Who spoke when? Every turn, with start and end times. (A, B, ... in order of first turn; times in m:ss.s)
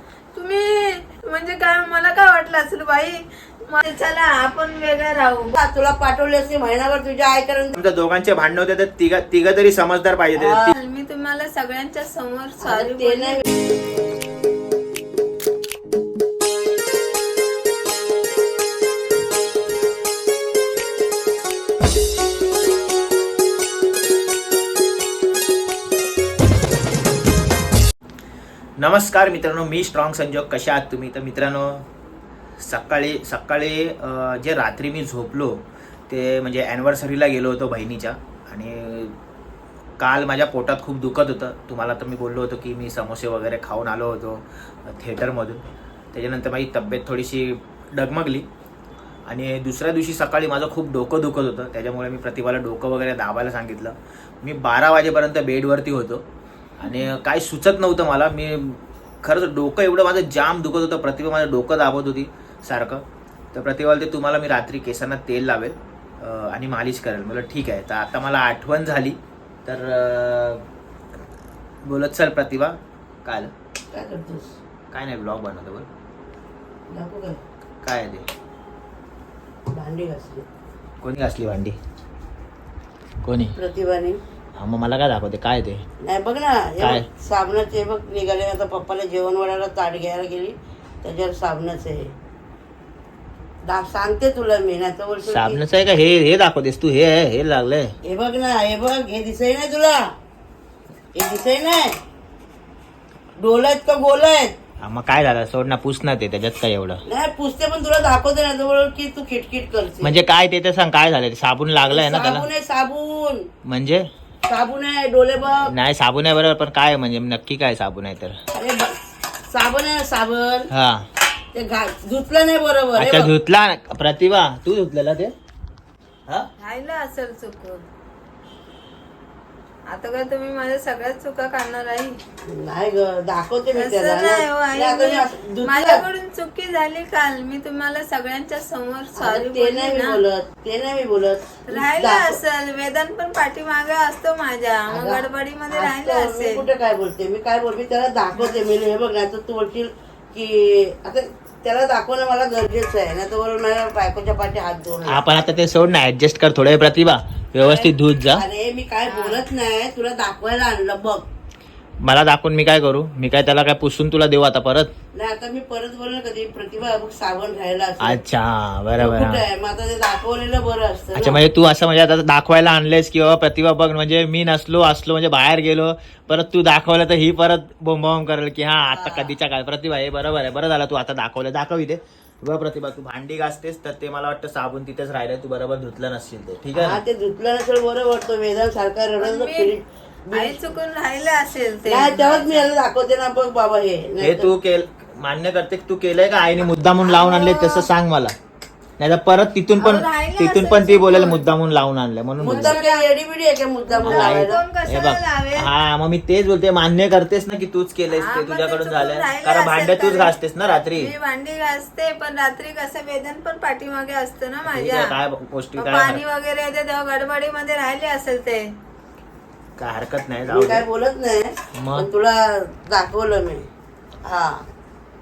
0:00.3-0:05.6 A
0:05.6-0:07.7 B
0:07.7-0:10.8 C
0:10.4-0:10.8 B
0:10.7-0:13.4 A
0:12.6-0:13.4 B
0:28.8-0:31.8 C
0:32.6-0:39.1 C
0:40.0-0:45.6 C
0:46.1-0:48.5 C
0:49.3-0:56.2 C
0:56.8-1:10.6 C
1:11.8-1:13.5 C
1:13.9-1:14.6 B
1:14.9-1:15.9 C
1:16.9-1:17.4 B
1:17.8-1:18.3 C
1:19.7-1:20.4 B
1:21.0-1:21.8 C
1:23.2-1:23.5 C
1:23.5-1:24.2 B
1:24.6-1:25.8 C
1:26.0-1:32.1 B
1:26.8-1:27.0 C
1:33.6-1:35.6 B
1:35.3-1:37.9 C
1:38.0-1:40.1 B
1:41.1-1:42.0 B
1:43.4-1:44.5 B
1:44.8-1:47.0 C
1:47.1-1:50.1 B
1:50.0-1:52.4 C
1:51.9-1:53.5 B
1:53.6-1:54.1 C
1:54.4-1:55.7 B
1:55.6-1:58.4 C
1:58.5-2:00.7 B
2:00.7-2:01.0 C
2:01.5-2:03.3 B
2:03.0-2:05.3 C
2:06.6-2:07.8 A
2:09.9-2:12.2 A
2:12.5-2:16.0 B
2:13.7-2:20.2 A
2:19.2-2:22.4 B
2:21.7-2:26.7 A
2:24.9-2:35.2 B
2:35.0-2:38.4 C
2:37.6-2:37.9 A
2:38.3-2:41.2 B
2:39.1-2:39.4 A
2:42.0-2:44.9 C
2:45.1-2:48.2 B
2:48.0-2:49.4 C
2:49.0-2:51.4 B
2:51.1-3:07.0 C
2:58.9-2:59.4 B
3:06.7-3:10.6 B
3:09.2-3:09.7 A
3:10.3-3:12.7 A
3:11.8-3:14.5 B
3:14.2-3:18.3 C
3:17.0-3:17.9 A
3:19.0-3:22.8 C
3:19.8-3:21.4 A
3:22.4-3:24.6 B
3:22.4-3:23.0 A
3:23.9-3:25.7 A
3:24.0-3:31.1 C
3:28.1-3:30.3 A
3:31.0-3:35.2 A
3:34.7-3:36.2 C
3:35.8-3:38.7 A
3:39.8-3:40.8 C
3:40.5-3:43.7 B
3:41.8-3:42.1 C
3:44.2-3:44.6 B